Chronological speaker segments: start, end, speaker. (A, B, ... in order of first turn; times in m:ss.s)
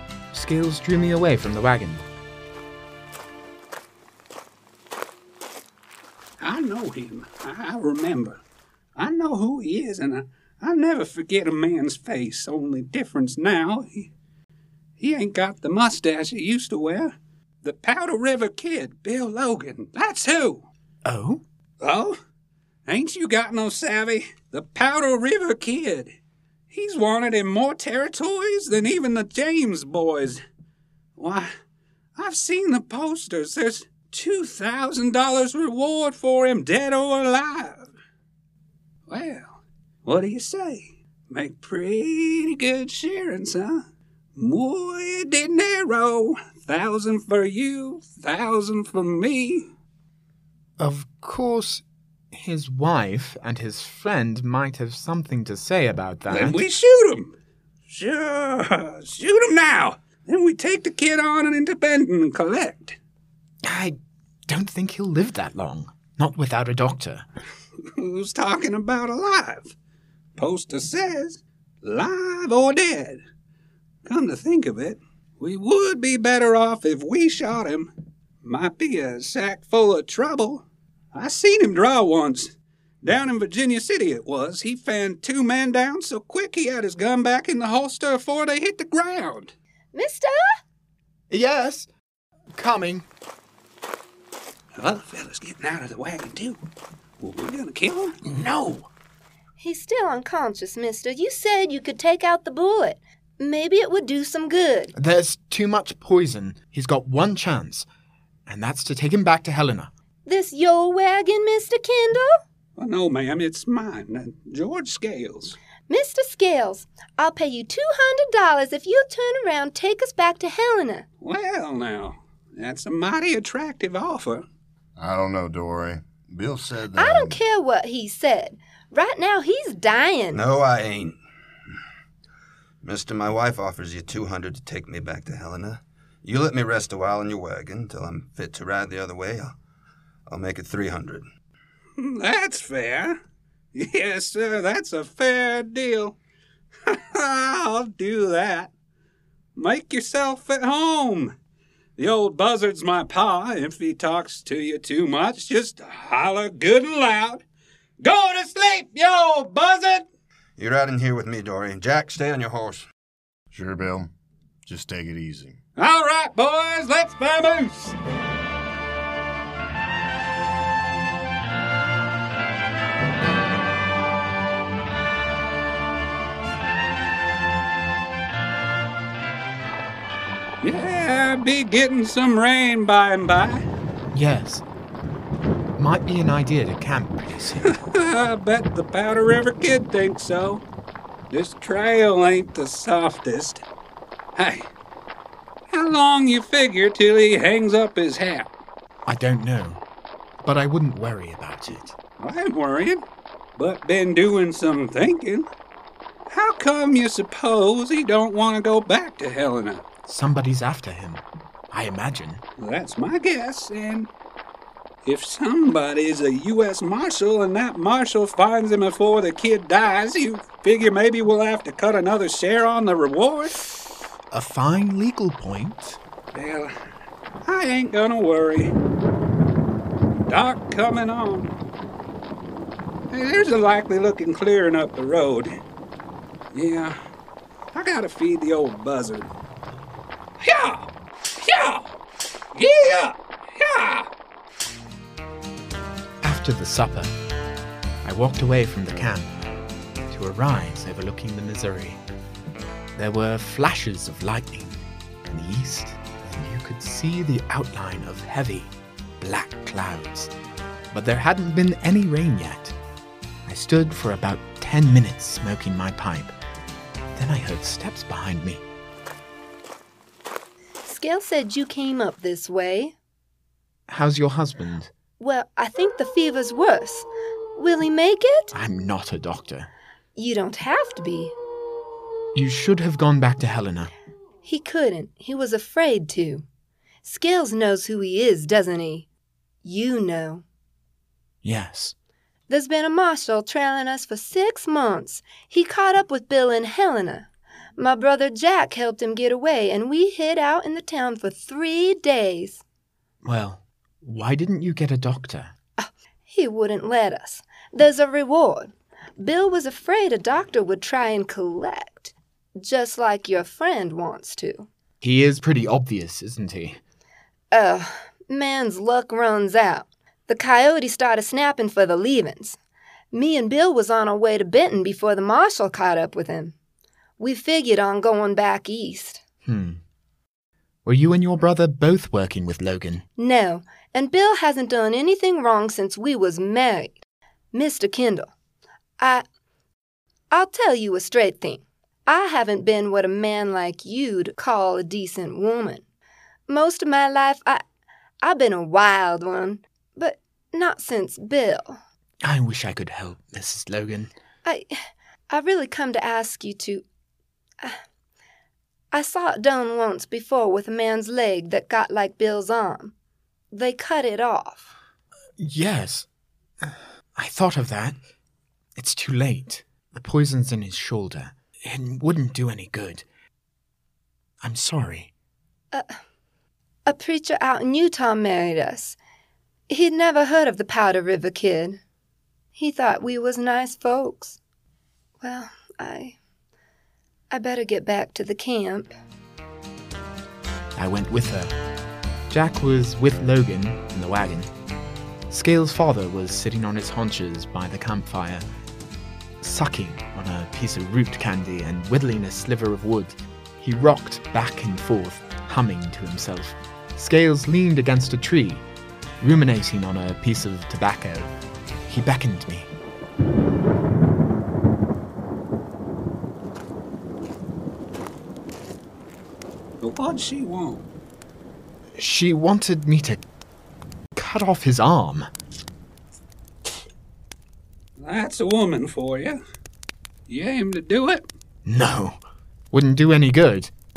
0:00.3-0:02.0 A
0:06.4-0:08.4 B
0:09.0-0:14.1 B
0:15.0-0:20.7 B
0:21.0-0:21.4 A
0:21.8-0:22.2 B
0:22.9-0:26.1 B
0:26.7-0:30.4 B
0:31.2-0:31.5 B
0:32.2-0:37.9 B
0:39.1-0:49.7 B
0:50.8-0:56.6 A
0:56.3-0:57.3 B
0:57.9-1:03.0 B
1:03.6-1:04.0 A
1:04.5-1:07.2 A
1:07.9-1:09.7 B
1:10.4-1:13.2 B
1:14.0-1:17.9 B
1:18.4-1:29.5 B
1:29.9-1:30.6 C
1:31.3-1:31.9 A
1:32.5-1:33.0 A
1:34.8-1:36.6 B
1:37.2-1:38.2 B
1:38.2-1:38.9 A
1:39.6-1:44.9 C
1:44.9-1:47.9 A
1:48.4-1:49.9 A
1:50.2-1:52.3 C
1:52.8-1:55.6 B
1:55.9-2:01.0 C
2:01.2-2:04.4 B
2:05.0-2:07.4 D
2:07.0-2:10.4 C
2:10.3-2:11.2 E
2:12.8-2:19.6 E
2:20.3-2:21.3 E
2:22.0-2:23.2 B
2:23.7-2:26.2 B
2:26.8-2:28.7 B
2:29.6-2:31.3 B
2:32.0-2:37.4 B
2:38.0-2:40.0 B
2:40.6-2:42.9 E
2:43.5-2:44.1 D
2:44.6-2:45.6 D
2:45.8-2:48.0 B
3:00.6-3:03.6 B
3:04.1-3:04.6 A
3:05.8-3:07.8 A
3:07.7-3:10.6 B
3:11.3-3:13.6 B
3:14.3-3:14.7 B
3:15.7-3:18.5 B
3:19.0-3:19.8 A
3:20.4-3:22.0 A
3:22.2-3:23.0 B
3:23.6-3:25.5 B
3:26.3-3:29.8 B
3:30.0-3:32.4 A
3:32.6-3:34.1 B
3:35.0-3:43.6 B
3:44.3-3:46.0 A
3:46.3-3:46.7 B
3:47.4-3:48.7 B
3:50.3-3:51.5 B
3:53.1-3:55.5 B
3:56.5-3:57.0 B
3:57.7-3:59.3 B
4:00.4-4:01.9 B
4:02.5-4:04.1 B
4:06.2-4:07.1 A
4:08.0-4:09.3 A
4:10.1-4:12.0 A
4:13.0-4:20.3 A
4:20.9-4:22.8 A
4:23.4-4:26.3 A
4:27.1-4:28.6 A
4:30.8-4:32.9 C
4:33.9-4:34.9 A
4:35.2-4:38.5 C
4:38.5-4:39.7 A
4:40.2-4:41.3 C
4:42.3-4:43.9 A
4:44.4-4:46.4 C
4:47.0-4:49.1 C
4:49.6-4:50.4 C
4:51.4-4:51.9 A
4:52.5-5:02.6 C
5:03.2-5:05.5 A
5:05.8-5:14.7 C
5:15.0-5:16.8 A
5:17.5-5:22.6 C
5:23.1-5:26.5 C
5:27.2-5:29.2 C
5:29.4-5:29.8 A
5:30.8-5:33.0 A
5:33.2-5:38.3 C
5:39.0-5:39.2 C
5:40.3-5:45.8 C
5:46.5-5:47.6 C
5:48.2-5:51.8 C
5:52.2-5:54.1 A
5:54.4-5:54.8 C
5:55.3-5:56.8 C
5:58.9-6:02.9 C
6:03.5-6:04.7 C
6:05.4-6:06.1 A
6:06.6-6:08.0 A
6:08.8-6:13.0 A
6:14.4-6:15.1 A
6:15.7-6:16.0 C
6:16.8-6:19.0 C
6:19.7-6:21.8 C
6:22.5-6:24.4 C
6:25.2-6:26.2 C
6:27.3-6:28.9 C
6:30.8-6:31.5 A
6:32.3-6:34.5 A
6:35.3-6:38.4 A
6:39.4-6:48.6 A
6:49.2-6:51.3 A
6:51.9-6:52.7 A
6:59.8-7:00.8 B
7:01.9-7:03.2 A
7:04.1-7:05.3 A
7:08.0-7:09.4 B
7:10.3-7:11.2 B
7:11.6-7:13.7 A